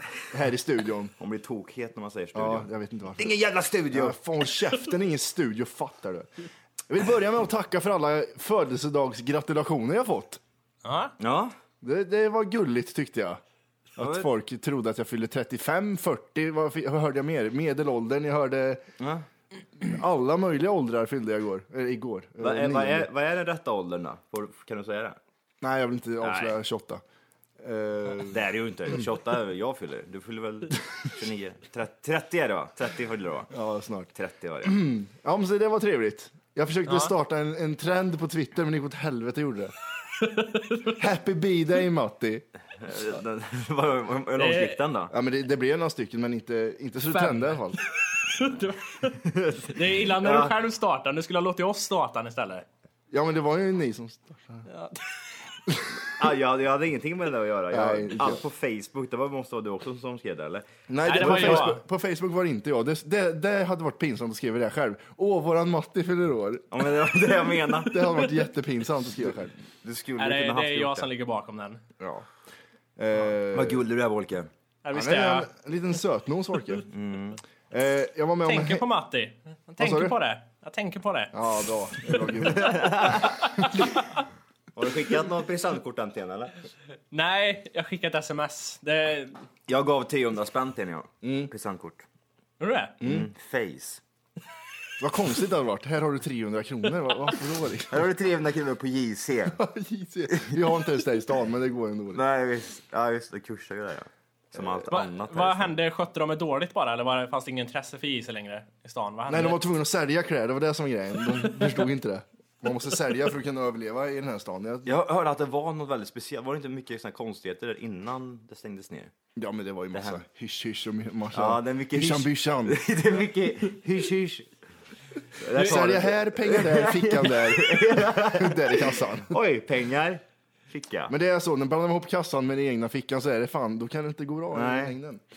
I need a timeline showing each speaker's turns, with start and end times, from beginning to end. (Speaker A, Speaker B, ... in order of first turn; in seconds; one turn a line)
Speaker A: 0.3-1.1
Speaker B: 1.2-4.2
Speaker A: 2.3-3.3
Speaker A: 3.9-6.3
Speaker A: 6.9-10.4
Speaker C: 10.8-11.1
Speaker B: 11.2-11.5
Speaker A: 11.8-13.4
Speaker A: 14.0-18.8
Speaker B: 14.0-14.3
Speaker B: 19.0-19.2
Speaker A: 19.8-23.1
Speaker B: 22.4-25.2
Speaker A: 25.6-27.0
Speaker B: 26.2-26.6
Speaker A: 27.6-28.4
Speaker B: 28.2-33.5
Speaker A: 33.5-34.1
Speaker B: 34.1-34.8
Speaker A: 34.6-39.7
Speaker C: 36.9-37.1
Speaker C: 40.2-40.9
Speaker A: 41.0-42.5
Speaker B: 42.8-45.1
Speaker C: 44.4-44.8
Speaker A: 45.1-47.8
Speaker C: 47.1-47.5
Speaker C: 48.2-52.6
Speaker B: 49.2-50.5
Speaker A: 53.1-54.6
Speaker C: 54.7-55.0
Speaker B: 56.0-61.7
Speaker A: 57.7-58.4
Speaker A: 60.9-66.8
Speaker C: 61.0-61.8
Speaker B: 66.7-68.2
Speaker A: 67.8-69.5
Speaker B: 69.8-71.0
Speaker C: 70.2-71.8
Speaker A: 72.0-72.2
Speaker A: 73.0-73.8
Speaker B: 73.4-74.5
Speaker C: 74.8-75.5
Speaker A: 74.9-76.9
Speaker B: 76.9-77.4
Speaker A: 77.7-78.8
Speaker C: 78.4-81.4
Speaker A: 79.8-80.1
Speaker A: 81.3-83.9
Speaker B: 82.5-83.3
Speaker B: 84.7-86.5
Speaker C: 87.1-89.4
Speaker B: 89.7-92.0
Speaker A: 91.2-91.5
Speaker C: 92.6-92.9
Speaker A: 93.0-93.3
Speaker B: 93.0-94.0
Speaker A: 95.0-98.1
Speaker B: 97.9-99.6
Speaker A: 99.5-102.2
Speaker B: 100.3-100.6
Speaker B: 102.1-105.7
Speaker C: 104.9-109.6
Speaker A: 109.3-114.9
Speaker B: 114.8-119.1
Speaker A: 119.3-122.8
Speaker B: 119.9-120.2
Speaker B: 121.3-124.5
Speaker B: 125.4-131.1
Speaker A: 125.5-129.4
Speaker A: 131.1-135.2
Speaker B: 134.5-134.9